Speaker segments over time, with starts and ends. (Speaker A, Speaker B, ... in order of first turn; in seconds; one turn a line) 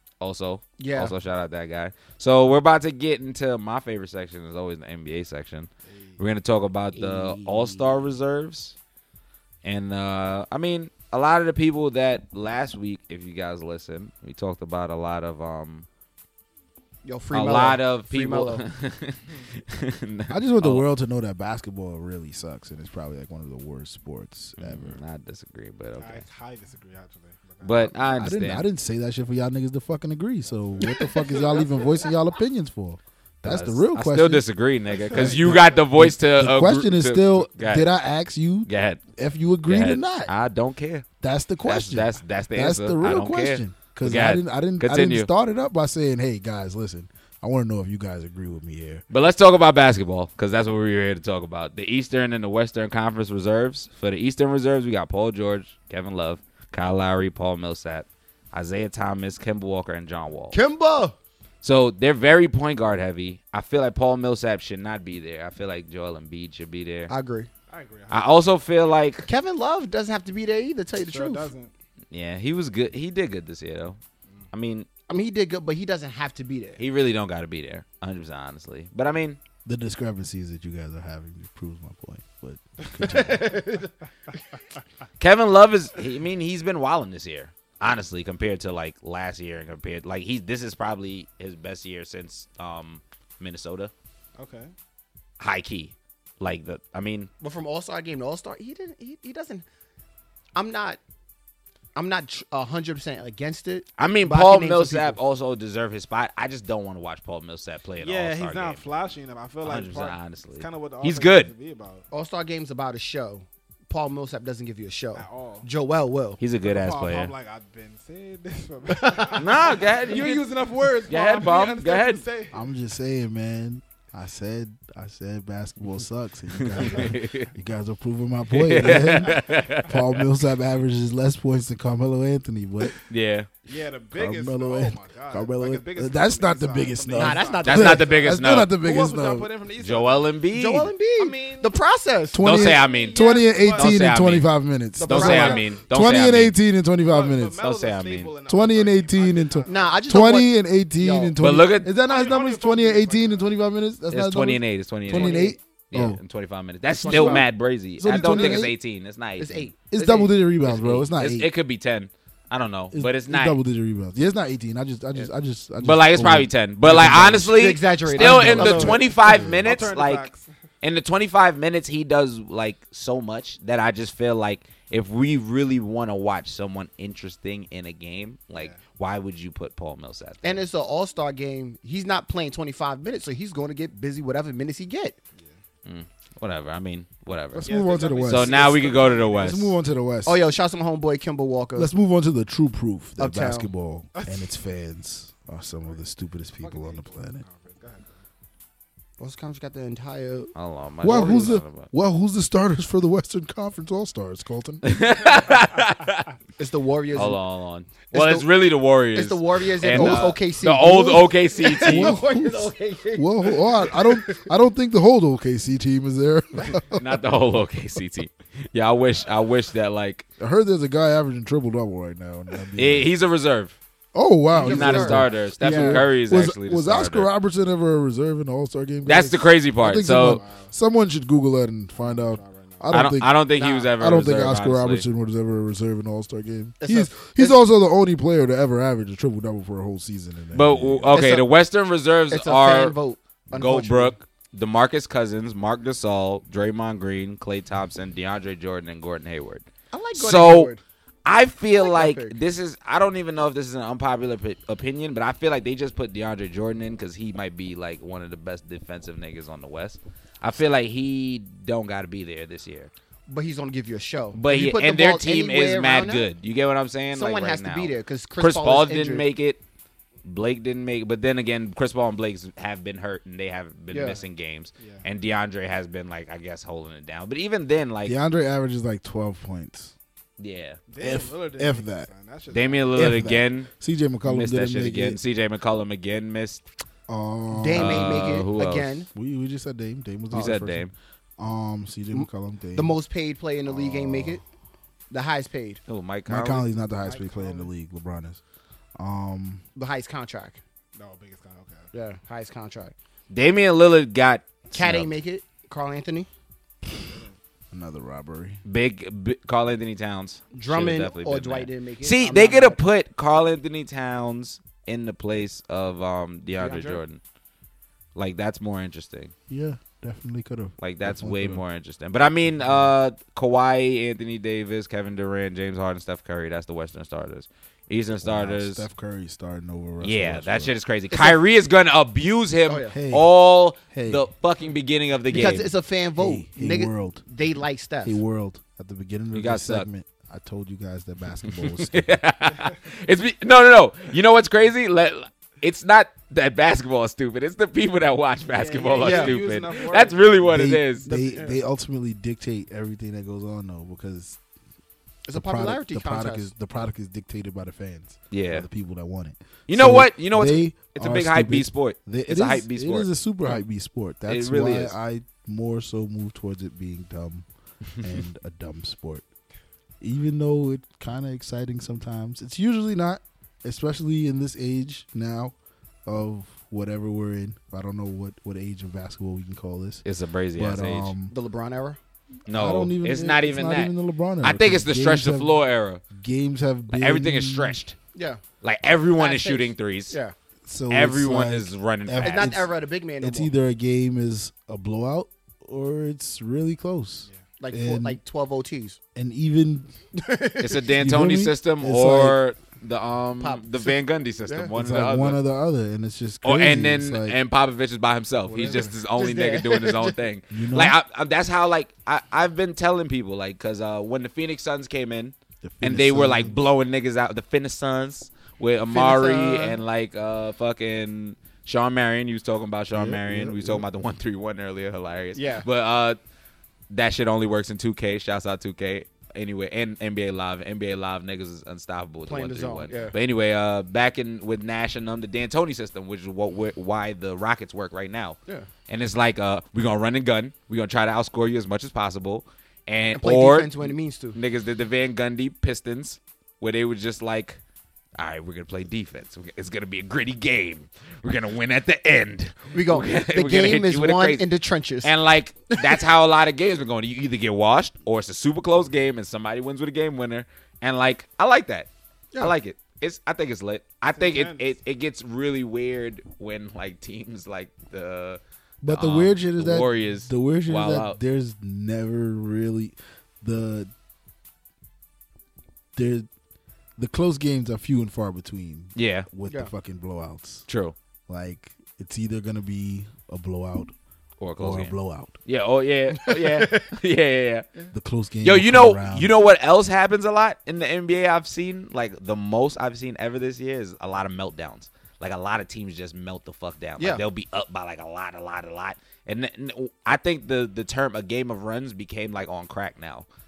Speaker A: 0.2-8.8
Speaker B: 0.8-1.1
Speaker C: 5.9-6.2
Speaker B: 6.9-8.0
Speaker A: 9.6-15.8
Speaker B: 17.0-18.6
Speaker A: 17.3-20.8
Speaker D: 20.3-25.0
Speaker A: 24.6-26.2
Speaker C: 26.0-28.1
Speaker A: 27.6-28.6
Speaker D: 28.2-34.5
Speaker C: 30.8-32.1
Speaker A: 33.4-37.9
Speaker C: 34.9-35.8
Speaker D: 35.1-40.3
Speaker A: 38.6-39.0
Speaker A: 39.6-41.1
Speaker D: 41.2-49.0
Speaker A: 41.6-45.3
Speaker A: 49.1-60.5
Speaker B: 60.5-61.1
Speaker A: 61.6-67.1
Speaker B: 67.1-67.5
Speaker C: 67.7-68.3
Speaker A: 68.1-69.3
Speaker B: 69.2-71.5
Speaker C: 71.0-71.7
Speaker A: 72.1-74.0
Speaker A: 74.5-74.9
Speaker B: 75.1-76.8
Speaker A: 76.8-79.4
Speaker D: 79.6-83.6
Speaker B: 83.1-83.9
Speaker A: 85.2-93.9
Speaker C: 94.3-94.7
Speaker A: 95.4-97.3
Speaker B: 97.4-99.6
Speaker B: 100.5-101.0
Speaker B: 101.9-105.2
Speaker A: 104.0-108.8
Speaker C: 108.0-112.0
Speaker A: 109.6-111.5
Speaker B: 112.1-116.4
Speaker C: 115.1-115.7
Speaker A: 116.4-117.3
Speaker C: 116.6-122.6
Speaker B: 119.0-119.4
Speaker A: 119.4-122.2
Speaker D: 122.5-133.0
Speaker A: 126.5-127.5
Speaker A: 128.5-130.2
Speaker C: 129.0-129.6
Speaker A: 133.1-133.5
Speaker C: 133.7-140.3
Speaker D: 134.1-139.5
Speaker B: 137.1-138.1
Speaker A: 137.6-138.7
Speaker A: 139.8-140.9
Speaker B: 140.5-142.4
Speaker C: 141.2-141.7
Speaker D: 142.3-147.6
Speaker A: 142.4-144.5
Speaker C: 142.5-144.1
Speaker B: 144.9-145.7
Speaker A: 145.1-146.5
Speaker C: 147.1-150.1
Speaker A: 147.6-148.3
Speaker D: 148.5-156.2
Speaker B: 149.7-151.4
Speaker A: 151.4-151.9
Speaker C: 152.0-153.5
Speaker A: 154.1-159.7
Speaker B: 155.1-155.6
Speaker B: 156.9-157.5
Speaker D: 157.0-157.5
Speaker D: 158.0-158.7
Speaker B: 158.2-158.6
Speaker B: 159.4-160.3
Speaker D: 159.9-161.5
Speaker A: 160.6-163.6
Speaker D: 162.9-169.9
Speaker A: 165.8-170.3
Speaker B: 167.4-169.1
Speaker C: 169.3-170.4
Speaker A: 170.8-180.6
Speaker C: 178.5-178.8
Speaker B: 180.4-185.2
Speaker A: 185.8-189.7
Speaker D: 187.5-190.4
Speaker C: 187.6-189.6
Speaker B: 190.2-191.9
Speaker D: 191.8-197.4
Speaker B: 193.2-193.7
Speaker C: 194.1-194.5
Speaker C: 196.6-198.2
Speaker B: 199.2-200.5
Speaker A: 200.5-201.9
Speaker D: 201.0-204.9
Speaker B: 201.1-201.5
Speaker A: 204.8-206.3
Speaker B: 206.6-207.4
Speaker A: 207.1-212.2
Speaker B: 208.1-208.5
Speaker B: 209.1-214.4
Speaker D: 209.9-210.4
Speaker D: 211.8-217.0
Speaker A: 216.9-220.2
Speaker D: 220.4-223.1
Speaker A: 222.8-223.8
Speaker D: 224.1-233.4
Speaker B: 224.5-226.0
Speaker A: 224.6-227.3
Speaker A: 229.0-230.4
Speaker C: 230.2-230.7
Speaker C: 231.9-232.9
Speaker A: 232.9-235.0
Speaker B: 233.6-233.9
Speaker D: 234.0-241.2
Speaker B: 236.8-237.6
Speaker A: 240.5-242.9
Speaker B: 241.1-241.5
Speaker B: 242.3-244.1
Speaker A: 243.5-250.7
Speaker B: 249.9-250.8
Speaker A: 251.2-262.9
Speaker B: 251.7-252.3
Speaker B: 263.3-266.3
Speaker A: 264.3-269.6
Speaker B: 267.1-269.2
Speaker A: 270.2-278.1
Speaker B: 273.9-274.2
Speaker C: 274.8-275.0
Speaker D: 278.0-279.9
Speaker A: 280.4-280.8
Speaker C: 280.9-283.2
Speaker D: 281.0-282.1
Speaker A: 282.5-283.7
Speaker D: 282.9-285.2
Speaker A: 284.2-286.6
Speaker D: 287.1-288.4
Speaker B: 287.5-289.1
Speaker A: 287.7-288.9
Speaker D: 289.1-290.9
Speaker A: 290.3-290.9
Speaker D: 291.4-292.9
Speaker B: 292.1-294.4
Speaker D: 293.7-294.4
Speaker B: 295.1-295.8
Speaker A: 295.9-296.6
Speaker D: 296.3-298.4
Speaker C: 296.8-297.7
Speaker D: 299.0-299.6
Speaker B: 299.7-300.6
Speaker C: 300.9-301.9
Speaker B: 301.9-302.9
Speaker A: 303.3-305.1
Speaker B: 304.7-306.3
Speaker C: 307.0-307.4
Speaker D: 307.7-308.6
Speaker A: 308.6-317.2
Speaker B: 310.5-312.8
Speaker B: 316.6-317.0
Speaker A: 318.1-319.3
Speaker D: 319.5-321.6
Speaker A: 320.8-328.8
Speaker D: 322.6-322.9
Speaker D: 328.2-330.7
Speaker A: 330.0-335.7
Speaker B: 332.7-332.9
Speaker D: 332.9-333.3
Speaker D: 333.9-334.2
Speaker B: 335.3-338.2
Speaker D: 336.2-337.2
Speaker D: 338.0-342.2
Speaker A: 339.3-339.9
Speaker A: 341.4-351.1
Speaker C: 348.5-350.6
Speaker B: 349.0-349.4
Speaker D: 350.4-354.4
Speaker C: 351.1-351.5
Speaker B: 355.2-356.5
Speaker D: 355.3-367.4
Speaker A: 358.3-358.6
Speaker A: 359.7-363.1
Speaker A: 364.3-364.9
Speaker D: 368.0-369.2
Speaker D: 370.0-375.5
Speaker D: 376.1-380.0
Speaker A: 380.0-381.1
Speaker D: 380.6-381.3
Speaker B: 381.3-382.0
Speaker A: 382.5-386.0
Speaker D: 382.5-385.6
Speaker D: 386.1-387.8
Speaker A: 386.9-387.9
Speaker B: 388.1-388.4
Speaker A: 388.6-390.1
Speaker B: 389.2-390.3
Speaker D: 390.6-398.2
Speaker A: 390.9-392.5
Speaker B: 392.2-393.5
Speaker B: 397.6-399.0
Speaker D: 399.1-399.9
Speaker B: 400.1-400.9
Speaker A: 400.6-405.4
Speaker D: 400.9-402.4
Speaker B: 403.4-404.7
Speaker D: 404.8-407.4
Speaker A: 406.4-426.2
Speaker D: 408.5-408.9
Speaker B: 408.6-410.2
Speaker D: 410.5-411.0
Speaker D: 415.6-416.6
Speaker B: 418.9-419.8
Speaker D: 422.9-423.8
Speaker B: 425.3-425.6
Speaker A: 426.9-438.4
Speaker B: 432.2-433.1
Speaker A: 438.9-447.6
Speaker B: 443.1-444.4
Speaker A: 448.2-454.4
Speaker B: 452.7-455.1
Speaker A: 455.0-461.9
Speaker B: 455.7-456.0
Speaker A: 462.4-471.2
Speaker C: 464.1-464.7
Speaker D: 468.8-473.9
Speaker D: 475.9-476.3
Speaker D: 477.0-480.7
Speaker A: 478.9-479.3
Speaker A: 480.7-480.9
Speaker D: 481.3-483.9
Speaker A: 484.4-484.9
Speaker D: 484.6-485.3
Speaker A: 485.4-487.7
Speaker B: 486.2-486.9
Speaker D: 487.9-489.3
Speaker A: 488.4-503.2
Speaker B: 497.0-497.2